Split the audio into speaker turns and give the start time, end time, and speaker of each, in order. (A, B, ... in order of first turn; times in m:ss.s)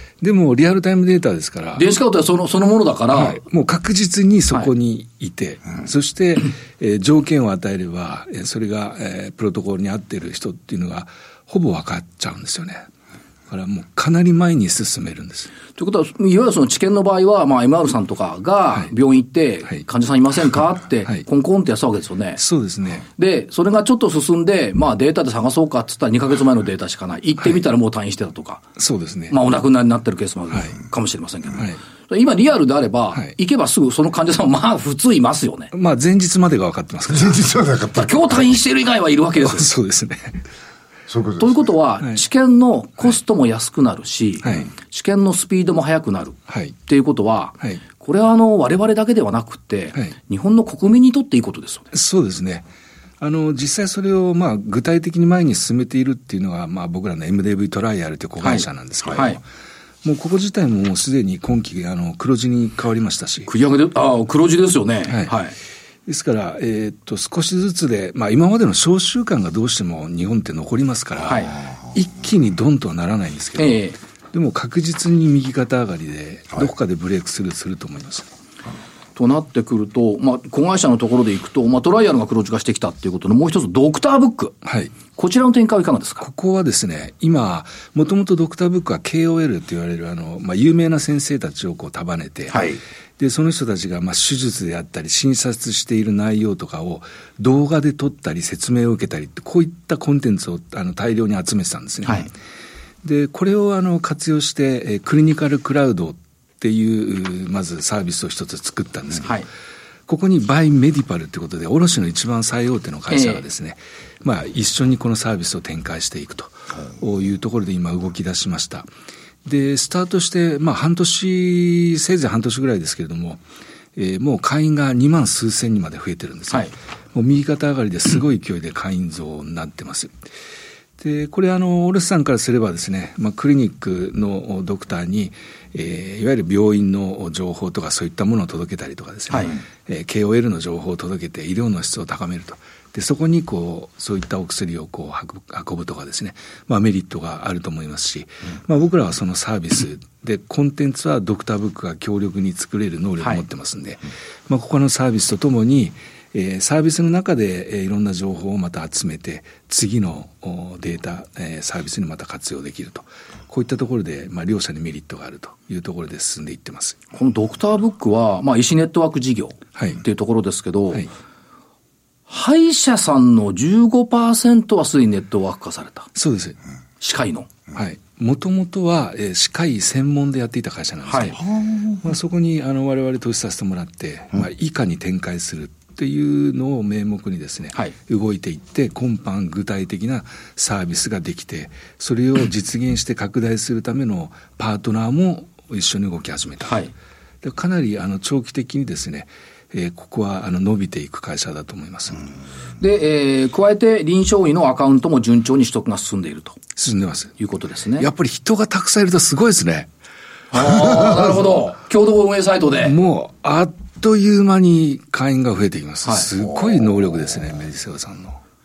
0:00.2-0:01.9 A
0:01.8-0:03.4 B
0:03.1-0:12.8 A
0:13.5-0:15.5 A
0:15.8-0:22.4 B
0:22.4-0:23.0 A
0:23.2-0:28.6 B
0:28.8-0:29.4 A
0:29.3-0:35.7 B
0:35.7-0:37.5 A
0:37.1-0:38.5 C
0:37.9-0:39.7 B
0:39.4-0:40.4 A
0:41.1-0:41.7 C
0:41.4-0:51.9 B
0:44.4-0:44.7 A
0:46.5-0:46.8 A
0:51.9-0:52.6 A
0:53.2-0:59.4 A
0:58.4-0:59.4 B
1:00.0-1:03.5 A
1:03.5-1:05.6 B
1:05.1-1:05.3 A
1:06.0-1:18.3 A
1:11.2-1:11.6 B
1:13.6-1:14.0 B
1:19.2-1:24.5 B
1:24.6-1:24.9 A
1:25.1-1:26.2 B
1:26.2-1:32.7 A
1:32.5-1:32.8 C
1:33.2-1:42.3 A
1:43.0-1:49.4 A
1:50.1-1:58.9 A
1:53.1-1:53.4 B
1:59.4-2:03.4 A
2:04.0-2:10.2 A
2:11.0-2:47.0 A
2:19.3-2:19.6 B
2:47.1-2:51.1 B
2:49.8-2:50.0 A
2:52.3-2:56.1 B
2:56.1-2:56.6 A
2:57.0-2:57.5 B
2:57.7-3:16.9 A
3:01.1-3:01.4 B
3:01.6-3:02.0 C
3:17.4-3:22.2 A
3:22.8-3:26.6 B
3:26.8-3:27.4 A
3:27.4-3:28.1 B
3:28.0-3:29.9 A
3:30.5-3:32.9 B
3:32.8-3:38.4 A
3:36.0-3:36.3 B